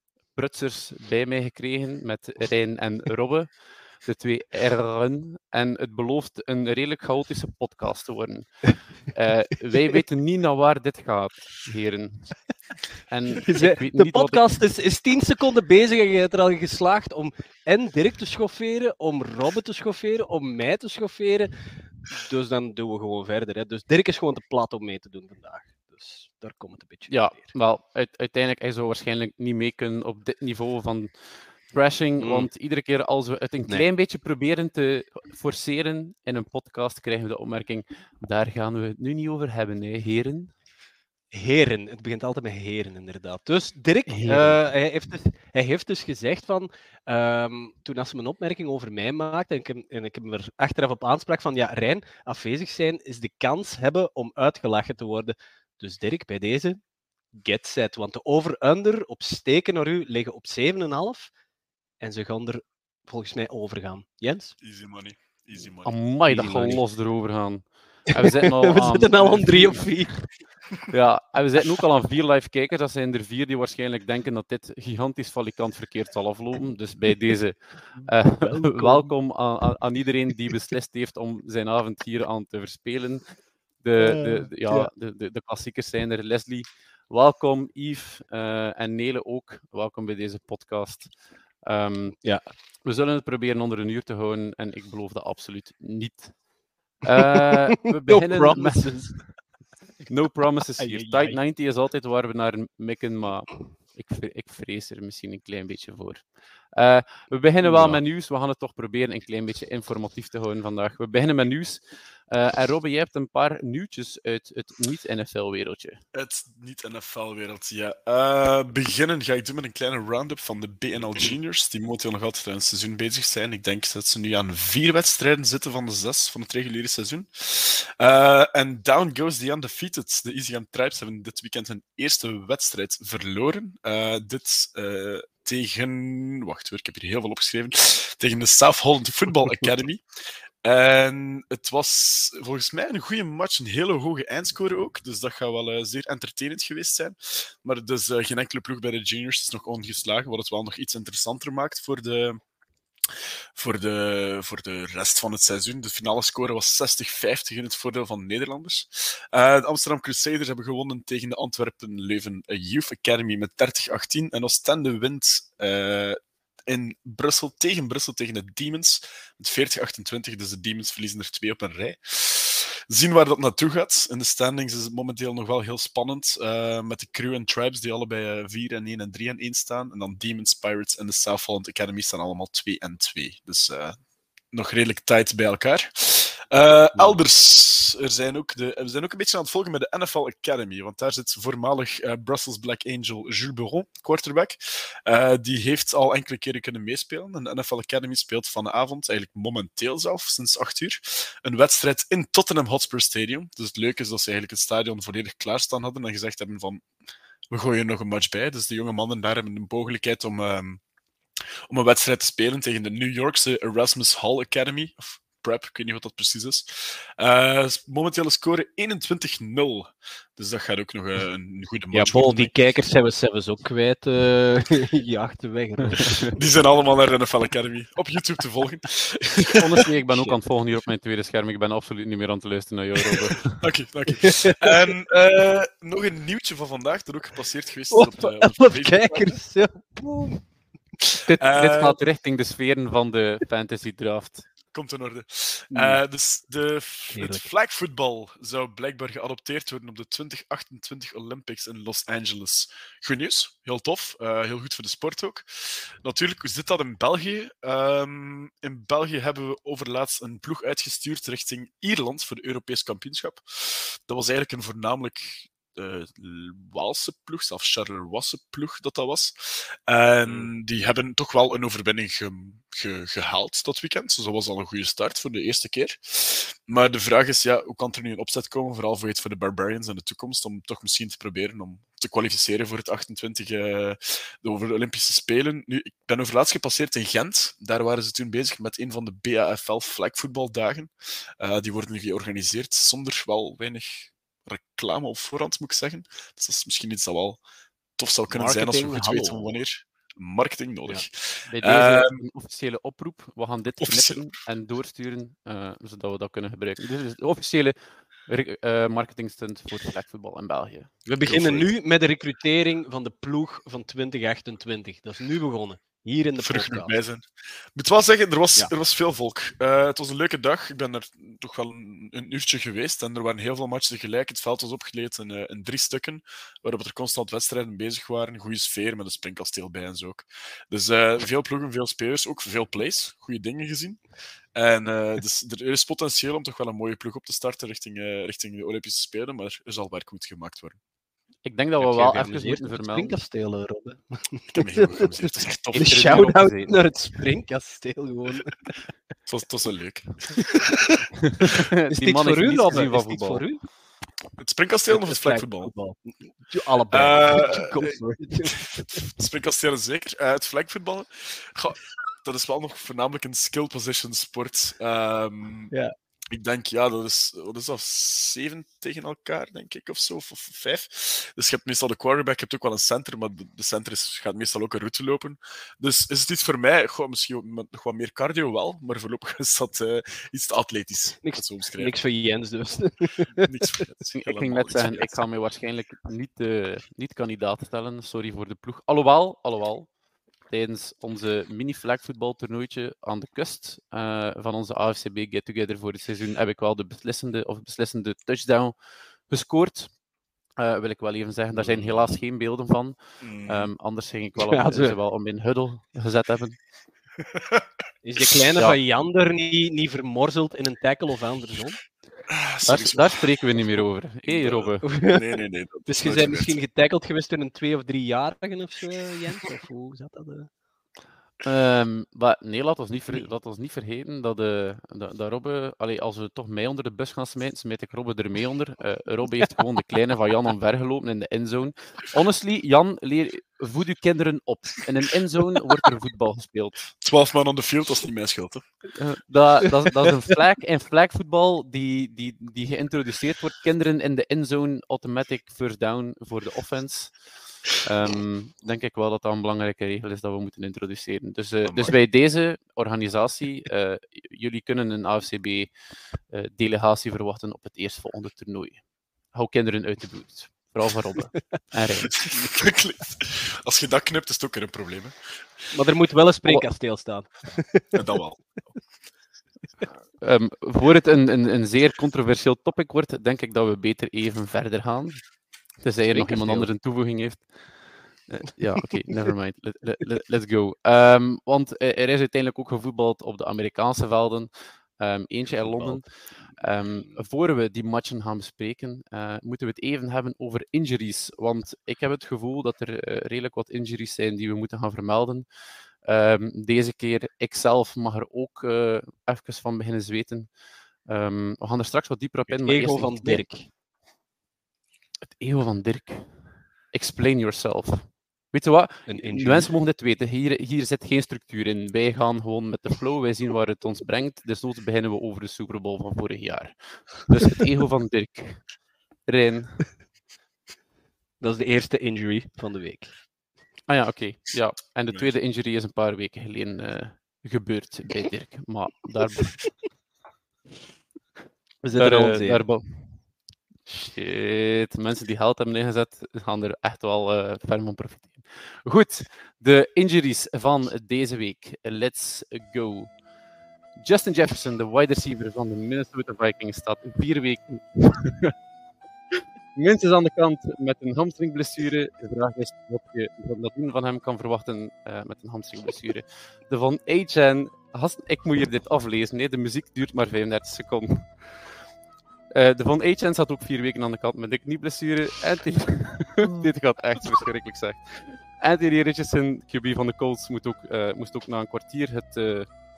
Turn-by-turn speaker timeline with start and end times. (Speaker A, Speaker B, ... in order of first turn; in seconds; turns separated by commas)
Speaker A: 0.3-12.4, Speaker A: 13.1-14.4, Speaker B: 13.4-27.5, Speaker A: 27.1-40.5, Speaker B: 32.2-32.5, Speaker B: 41.3-56.8, Speaker A: 44.1-44.6, Speaker B: 57.3-61.3, Speaker B: 62.0-64.6, Speaker C: 64.6-66.0, Speaker A: 65.8-70.0, Speaker B: 66.3-66.8, Speaker B: 68.1-70.3, Speaker A: 70.9-92.2, Speaker B: 78.0-79.1, Speaker B: 84.0-84.9, Speaker B: 92.2-92.5, Speaker A: 92.8-96.4, Speaker A: 97.0-99.3, Speaker B: 98.1-99.3, Speaker A: 100.1-116.0, Speaker B: 100.8-101.4, Speaker C: 107.7-108.0, Speaker C: 116.1-140.0, Speaker C: 140.6-152.4, Speaker C: 153.6-184.0, Speaker C: 184.5-206.9, Speaker C: 207.5-210.8, Speaker C: 211.7-222.8, Speaker B: 221.9-226.4, Speaker C: 226.3-229.8, Speaker A: 229.5-233.7, Speaker B: 230.1-230.4, Speaker C: 233.5-239.4, Speaker B: 234.2-234.8, Speaker B: 237.9-240.4, Speaker A: 241.2-244.5, Speaker C: 241.4-242.0, Speaker C: 244.7-297.4, Speaker B: 245.7-246.0, Speaker B: 247.1-247.4, Speaker B: 270.2-270.5, Speaker C: 298.0-302.2, Speaker B: 298.3-299.4, Speaker A: 301.5-310.9, Speaker C: 303.8-304.3, Speaker B: 311.1-317.0, Speaker C: 311.2-311.7, Speaker C: 316.4-334.0, Speaker C: 334.5-340.8, Speaker A: 341.4-343.1, Speaker B: 341.8-348.8, Speaker C: 344.5-346.2, Speaker A: 345.7-346.8, Speaker C: 349.2-350.6, Speaker B: 350.4-351.0, Speaker A: 351.3-353.4, Speaker B: 351.9-353.6, Speaker C: 354.4-355.7, Speaker B: 354.9-359.1, Speaker C: 356.9-358.0, Speaker C: 358.7-365.7, Speaker C: 366.3-382.0, Speaker B: 381.2-383.8, Speaker C: 383.4-385.2, Speaker A: 384.1-389.9, Speaker A: 390.5-398.8, Speaker A: 399.3-399.9, Speaker A: 400.6-406.6, Speaker C: 401.6-402.0, Speaker C: 403.2-403.7, Speaker B: 404.4-404.9, Speaker C: 407.3-407.6, Speaker B: 408.0-411.8, Speaker C: 412.3-416.6, Speaker A: 412.6-414.9, Speaker B: 414.8-415.2, Speaker B: 415.9-420.5, Speaker A: 421.4-436.8, Speaker C: 437.0-438.6, Speaker A: 438.9-455.8, Speaker C: 451.6-451.9, Speaker A: 456.3-462.2, Speaker C: 462.2-465.6, Speaker B: 465.7-468.1, Speaker C: 467.9-468.7, Speaker A: 470.2-495.5, Speaker B: 476.1-476.7, Speaker B: 485.5-486.3, Speaker A: 496.0-500.5, Speaker A: 501.0-503.5, Speaker B: 502.5-503.7, Speaker A: 505.3-518.7, Speaker B: 509.1-509.7, Speaker A: 519.3-519.9, Speaker B: 521.4-523.2, Speaker A: 523.9-529.7, Speaker A: 531.8-533.3, Speaker B: 531.9-532.6, Speaker A: 533.9-543.1, Speaker A: 544.0-548.5, Speaker A: 549.7-561.6, Speaker A: 562.5-572.7